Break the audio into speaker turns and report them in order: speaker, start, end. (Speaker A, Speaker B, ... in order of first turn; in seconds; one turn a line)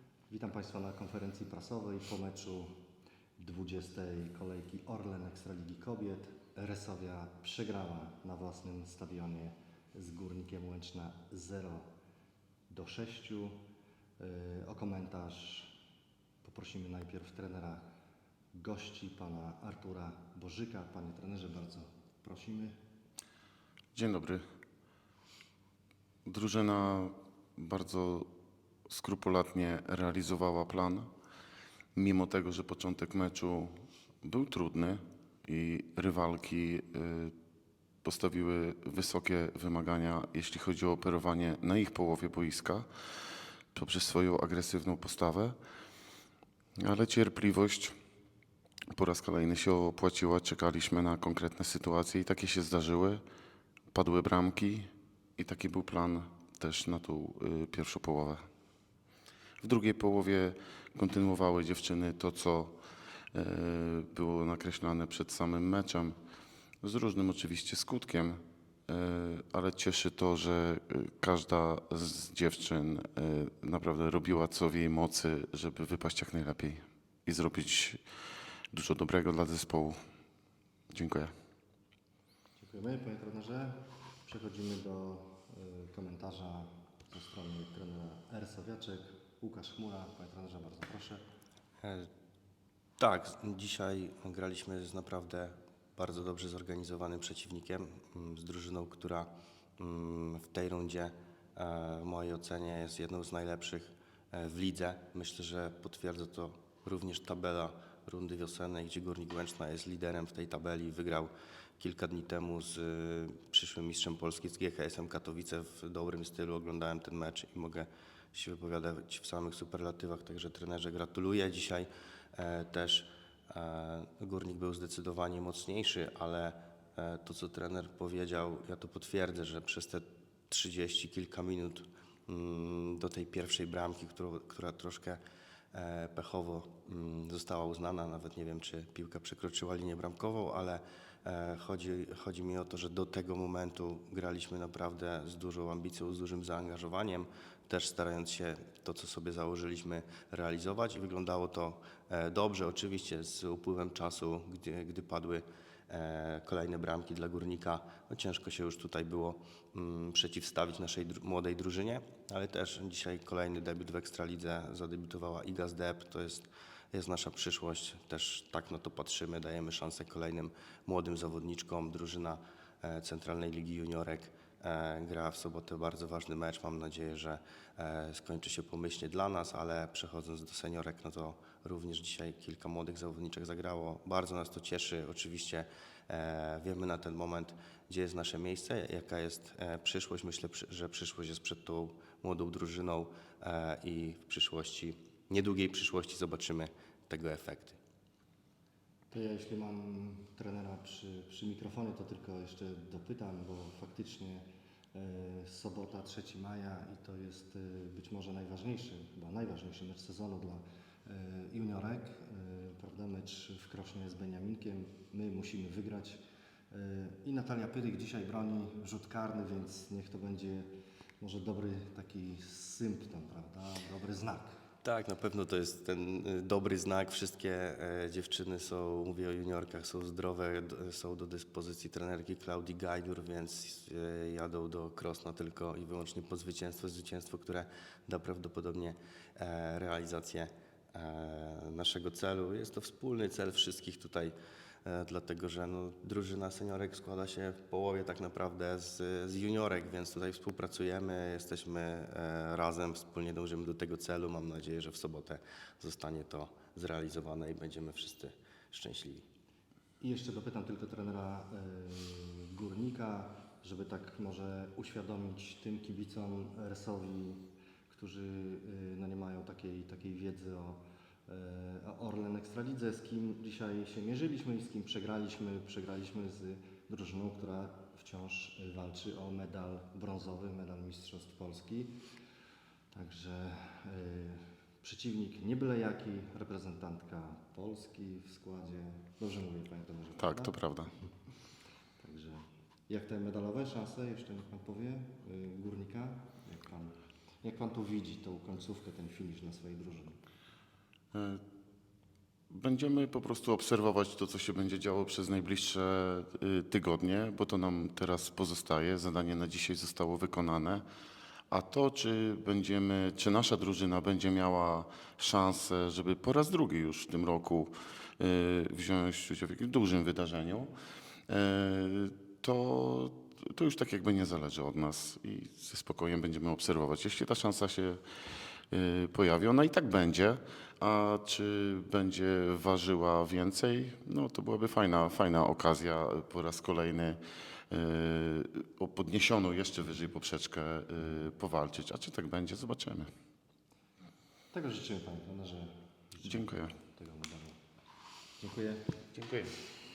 Speaker A: 0.3-2.7
Speaker A: 3.4-11.9
Speaker A: 12.7-13.6
Speaker A: 14.2-15.7
Speaker A: 16.4-17.9
Speaker A: 18.5-22.8
Speaker B: 23.9-24.4
Speaker B: 26.3-28.3
Speaker B: 28.9-31.1
Speaker B: 31.9-37.3
Speaker B: 38.0-42.9
Speaker B: 43.7-45.6
Speaker B: 46.8-48.0
Speaker B: 48.9-53.2
Speaker B: 53.9-58.5
Speaker B: 59.6-62.8
Speaker B: 63.3-66.2
Speaker B: 66.8-78.0
Speaker B: 78.7-80.0
Speaker B: 80.9-81.3
Speaker A: 82.6-91.2
Speaker C: 91.8-92.1
Speaker C: 93.0-135.2
Speaker C: 135.7-197.8
Speaker A: 199.1-216.2
Speaker A: 216.7-220.7
Speaker A: 221.2-224.6
Speaker C: 224.8-259.3
Speaker A: 260.0-282.0
Speaker A: 282.9-290.6
Speaker B: 290.2-290.9
Speaker A: 292.0-300.2
Speaker B: 301.1-301.4
Speaker B: 302.5-310.8
Speaker B: 311.5-320.7
Speaker B: 321.3-328.0
Speaker B: 328.7-337.2
Speaker B: 337.7-343.1
Speaker A: 344.5-347.6
Speaker B: 346.2-346.7
Speaker A: 348.4-349.0
Speaker B: 349.1-349.6